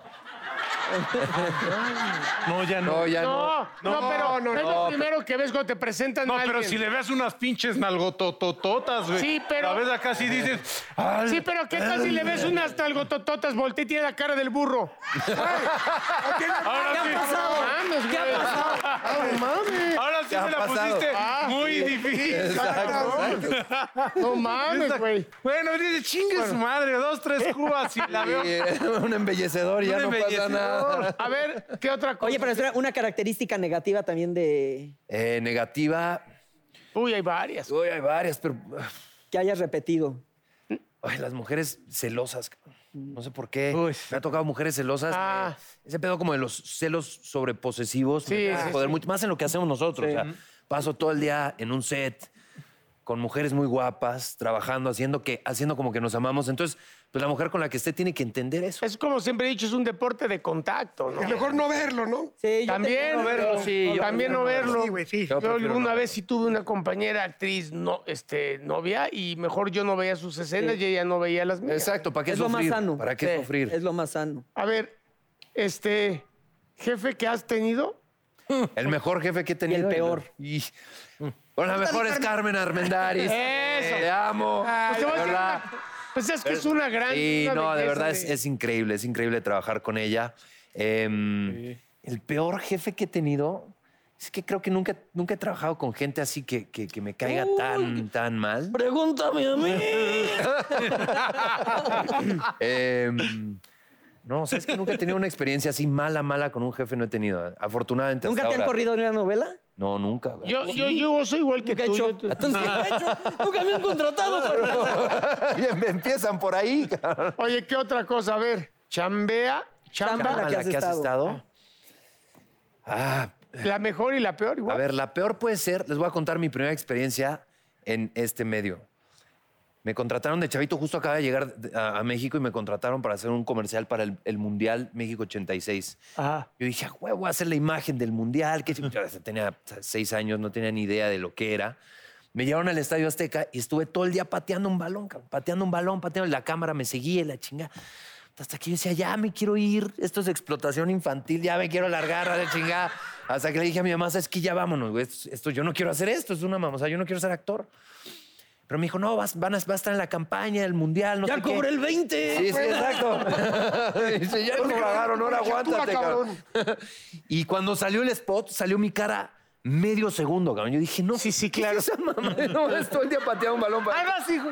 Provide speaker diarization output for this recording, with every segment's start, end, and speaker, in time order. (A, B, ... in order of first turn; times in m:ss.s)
0:01.2-0:05.1 A
0:02.4-0:03.1 B
0:03.1-0:06.8 C
0:03.8-0:04.3 B
0:03.8-0:04.8 D
0:06.2-0:10.8 B
0:09.2-0:09.8 C
0:11.0-0:12.5 A
0:11.2-0:14.9 C
0:15.2-0:15.6 A
0:15.3-0:17.8 D
0:15.9-0:17.6 B
0:16.9-0:18.8 E
0:17.1-0:20.0 C
0:18.3-0:19.2 B
0:19.0-0:19.4 D
0:19.9-0:28.6 B
0:20.3-0:21.2 A
0:21.1-0:21.9 C
0:21.7-0:23.6 D
0:22.2-0:23.5 A
0:24.2-0:25.3 C
0:26.3-0:26.6 C
0:28.1-0:31.3 A
0:29.8-0:31.1 B
0:31.2-0:32.7 C
0:32.2-0:34.9 E
0:35.1-0:36.3 A
0:36.9-0:37.7 C
0:37.7-0:39.0 A
0:39.3-0:40.2 E
0:41.0-0:42.6 A
0:43.1-0:52.3 A
0:43.7-0:44.2 B
0:45.1-0:45.6 C
0:48.2-0:49.0 C
0:50.0-0:50.3 B
0:53.0-0:58.8 A
0:58.8-1:01.4 C
1:01.2-1:02.3 D
1:02.4-1:04.7 E
1:02.7-1:11.9 C
1:03.0-1:04.0 B
1:04.5-1:04.8 A
1:04.6-1:05.3 D
1:05.3-1:06.2 A
1:11.6-1:13.8 A
1:12.3-1:14.4 E
1:13.2-1:13.5 C
1:14.6-1:14.9 C
1:15.5-1:16.2 C
1:16.8-1:18.0 C
1:18.7-1:20.7 A
1:19.7-1:20.3 E
1:21.5-1:25.6 A
1:21.8-1:22.1 C
1:23.2-1:24.1 C
1:24.6-1:28.3 C
1:26.4-1:38.8 A
1:37.2-1:38.0 E
1:38.7-1:42.2 E
1:40.0-1:41.4 A
1:41.1-1:41.7 B
1:42.4-1:43.6 A
1:44.2-1:48.7 A
1:48.2-1:49.6 E
1:49.8-1:51.0 A
1:50.4-1:52.3 C
1:51.6-1:55.2 E
1:52.3-1:57.4 A
1:57.4-2:00.4 C
2:00.0-2:01.1 E
2:00.1-2:01.4 A
2:02.8-2:03.7 A
2:03.6-2:04.8 C
2:04.7-2:08.8 A
2:09.8-2:16.0 A
2:16.6-2:21.8 A
2:22.3-2:27.7 A
2:28.4-2:37.7 A
2:38.7-2:41.7 A
2:41.2-2:43.0 E
2:42.2-2:54.2 A
2:42.4-2:43.4 D
2:44.5-2:46.4 D
2:51.1-2:51.9 C
2:54.0-2:54.2 B